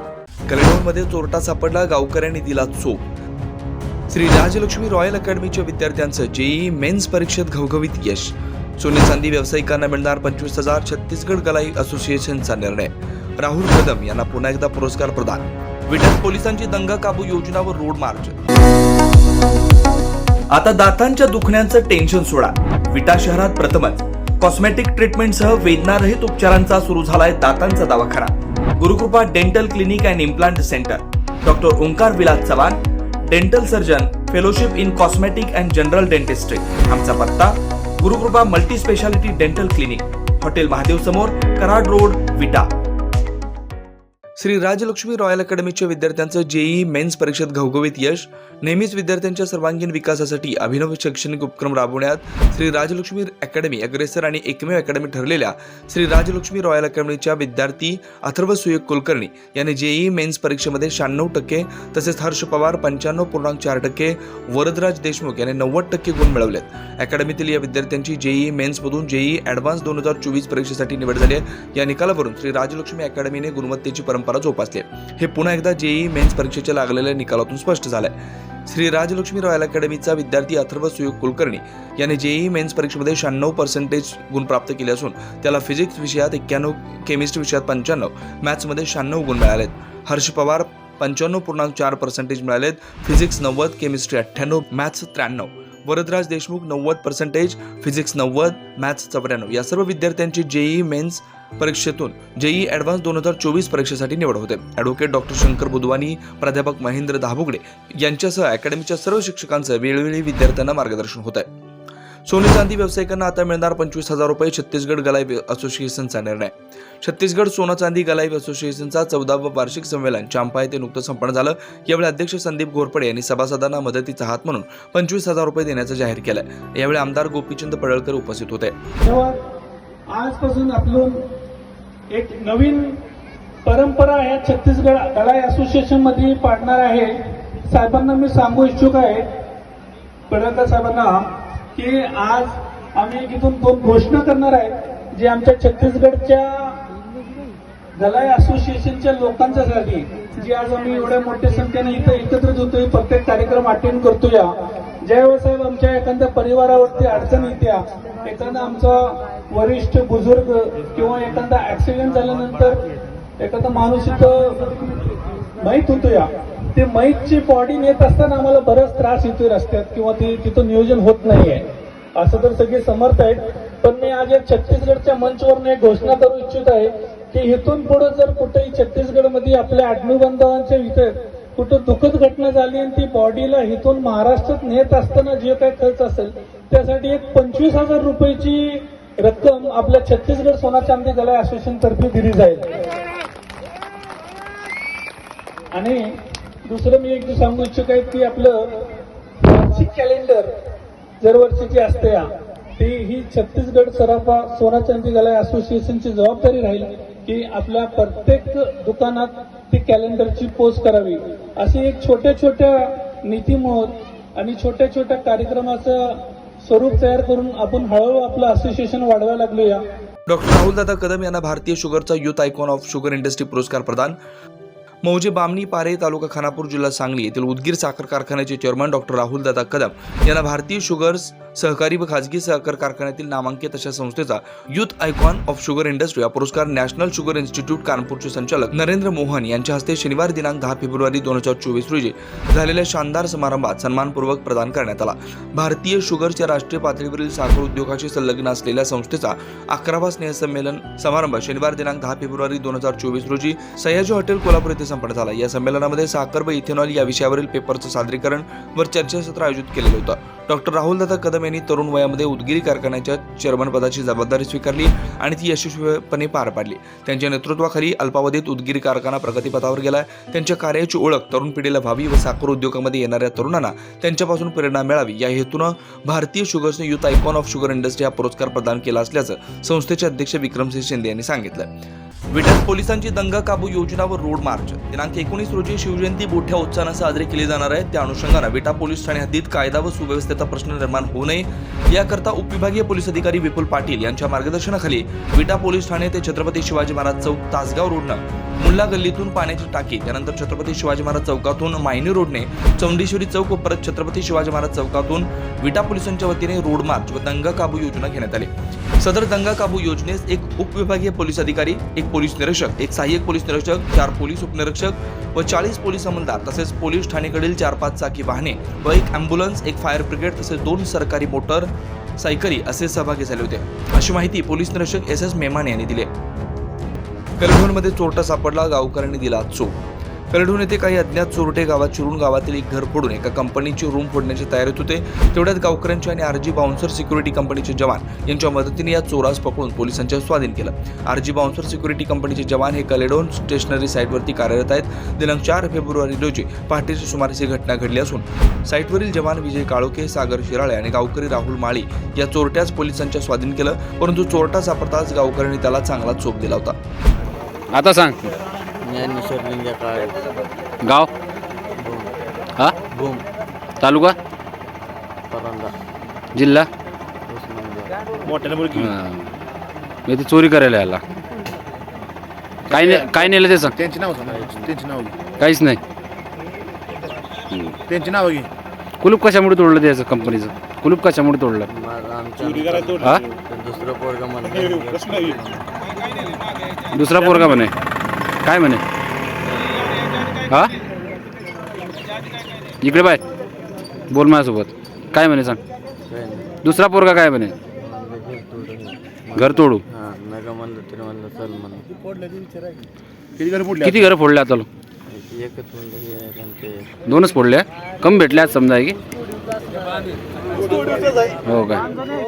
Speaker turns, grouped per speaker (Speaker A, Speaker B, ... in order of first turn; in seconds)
Speaker A: 0.5-3.0, 4.1-18.4, 20.5-42.7, 44.4-78.1, 78.7-111.5, 112.2-128.7, 220.3-224.2, 225.0-281.7, 282.3-326.1, 327.4-329.8, 330.3-356.8
Speaker B: 129.0-129.4, 130.1-131.2, 132.1-133.0, 133.6-137.1, 137.6-139.3, 140.3-146.8, 147.9-162.8, 163.4-165.0, 165.6-171.6, 172.2-192.7, 195.7-196.1, 196.7-198.7, 199.4-200.5, 201.2-219.8
Speaker C: 357.7-358.3, 360.8-361.1, 363.8-364.2, 366.3-366.7, 368.7-369.2, 370.1-371.0, 372.7-373.7, 375.4-375.8, 379.0-381.7, 386.9-387.7, 388.4-388.8, 390.5-390.7, 392.8-393.2, 394.1-395.6, 396.6-397.5, 399.4-399.8, 403.8-404.7, 407.1-409.0, 411.4-411.9
Speaker D: 358.8-360.2, 361.8-362.1, 362.9-363.2, 365.3-365.7, 367.3-368.0, 374.2-374.7, 381.7-385.7, 396.1-396.6, 397.7-401.9, 405.1-406.9
Speaker E: 368.2-368.9, 372.7-375.2, 377.8-378.5, 403.4-404.1